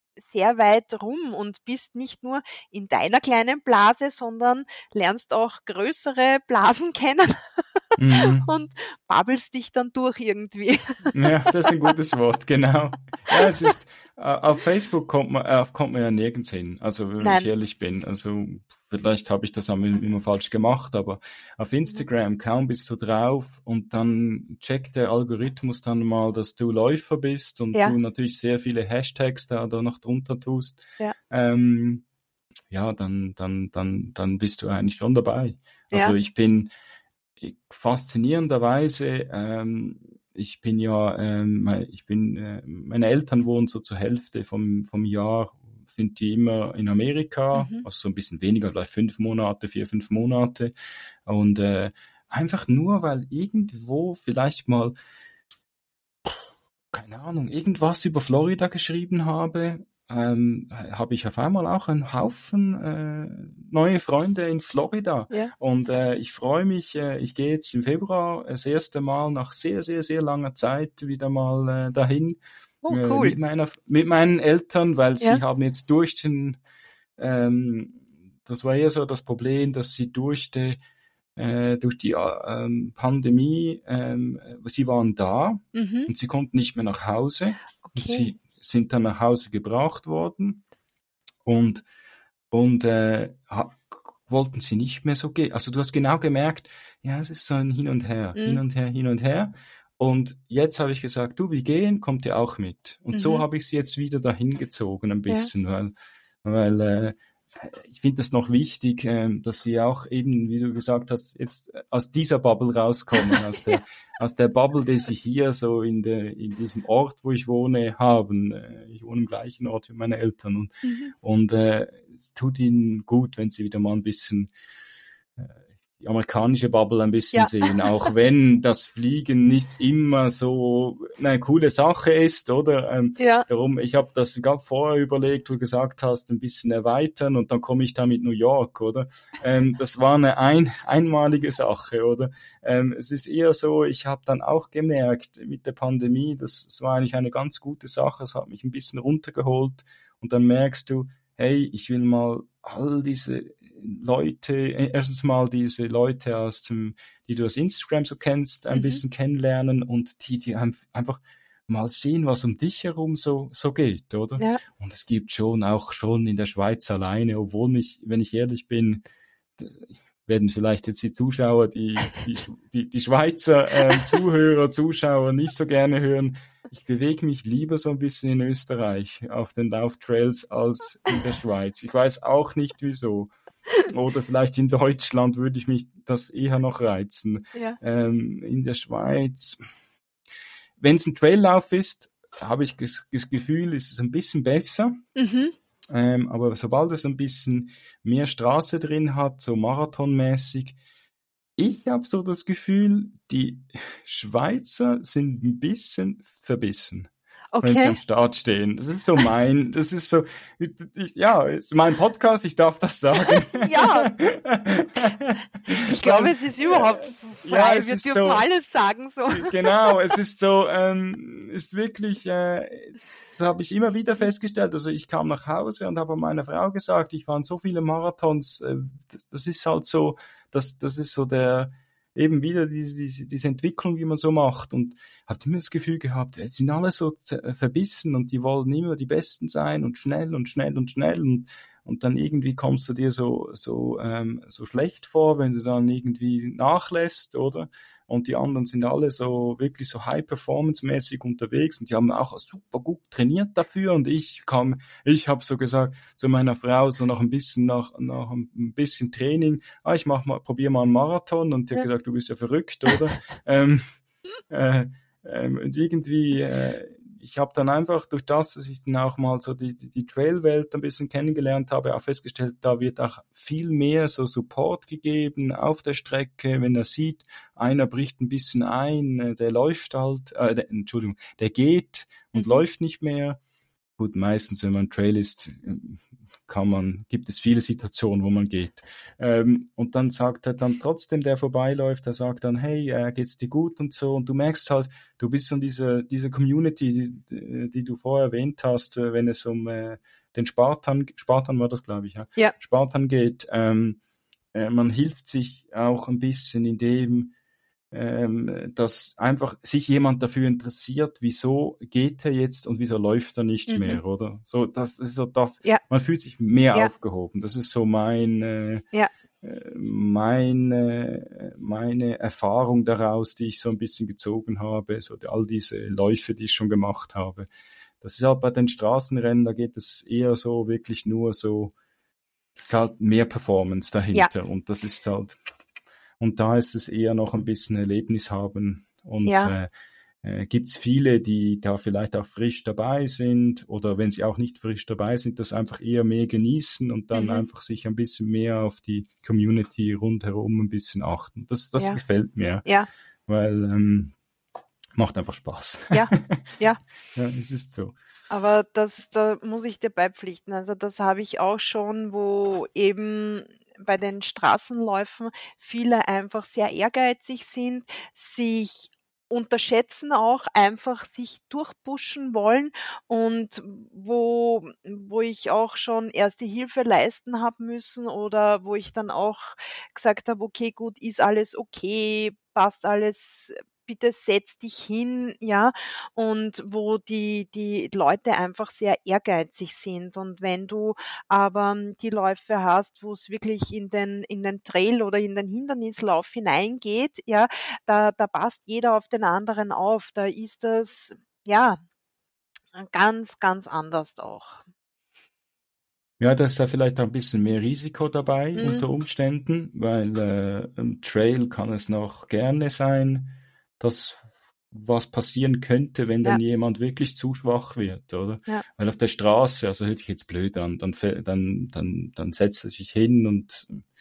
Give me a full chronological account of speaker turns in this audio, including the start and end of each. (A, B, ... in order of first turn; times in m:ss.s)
0:00.2-0:07.4 A
0:08.0-0:08.5 B
0:08.2-0:11.2 A
0:11.1-0:32.0 B
0:17.2-0:17.5 A
0:32.7-0:36.7 B
0:37.4-0:50.7 B
0:47.5-0:47.8 A
0:51.3-0:54.9 B
0:56.9-1:16.6 B
1:12.8-1:13.4 A
1:17.2-1:20.8 B
1:21.4-1:30.6 B
1:25.7-1:26.1 A
1:27.8-1:28.3 A
1:31.4-1:31.8 B
1:32.5-1:45.9 B
1:38.4-1:38.6 A
1:43.1-1:43.4 A
1:46.4-2:04.5 B
2:00.8-2:01.1 A
2:05.4-2:49.0 B
2:07.3-2:08.1 A
2:13.2-2:13.4 A
2:38.7-2:39.0 A
2:49.6-3:03.3 B
3:03.9-3:09.6 B
3:10.8-3:15.0 B
3:15.2-3:15.5 A
3:15.9-3:20.8 B
3:21.6-3:27.1 B
3:27.5-3:28.0 A
3:27.6-3:38.4 B
3:33.2-3:34.1 A
3:35.9-3:40.1 A
3:39.3-4:23.8 B
4:24.5-4:43.4 B
4:42.4-4:42.6 A
4:44.0-5:04.0 B
5:04.5-5:07.3 B
5:07.9-5:18.8 B
5:13.7-5:14.0 A
5:19.4-5:27.5 B
5:28.0-5:31.7 B
5:32.6-5:35.4 B
5:36.2-5:39.7 B
5:39.2-5:39.5 A
5:40.2-5:52.7 B
5:47.1-5:47.5 A
5:53.3-5:54.1 B
5:55.0-5:56.4 B
5:55.9-5:56.8 A
5:57.1-5:58.0 B
5:58.3-6:41.8 A
6:42.8-6:44.6 A
6:46.2-7:03.8 B
6:48.6-6:48.9 A